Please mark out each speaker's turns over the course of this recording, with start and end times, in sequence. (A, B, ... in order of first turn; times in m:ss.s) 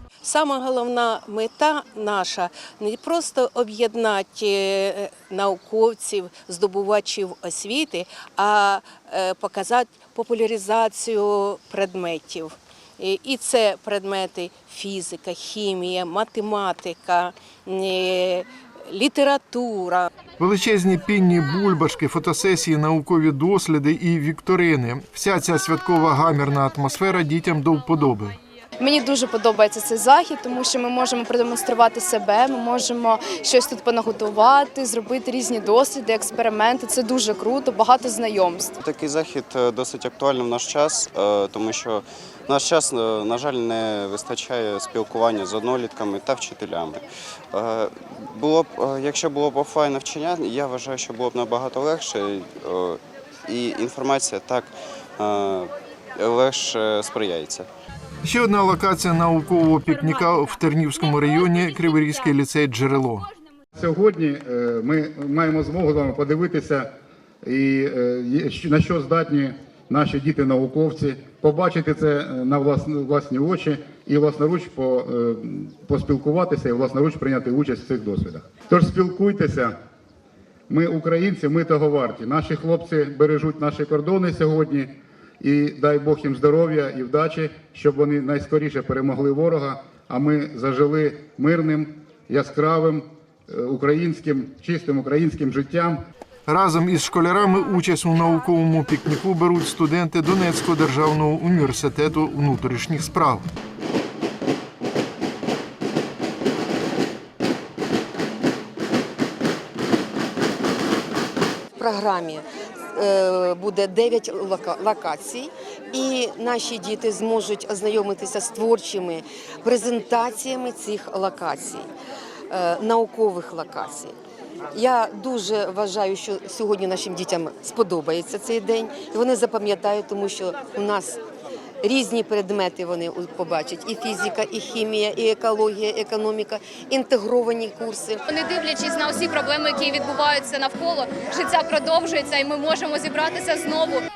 0:00.2-0:20.1 A
0:20.4-0:28.4 B
0:28.8-0:38.7 C
0:38.8-0:57.7 D
0:58.2-1:03.3 B
1:03.8-1:06.9 E
1:07.4-1:19.8 E
1:20.7-1:36.0 E
1:36.5-1:43.5 B
1:51.8-2:01.9 F
2:02.5-2:04.1 F
2:04.7-2:11.2 F
2:11.8-2:18.2 F
2:18.3-2:24.0 G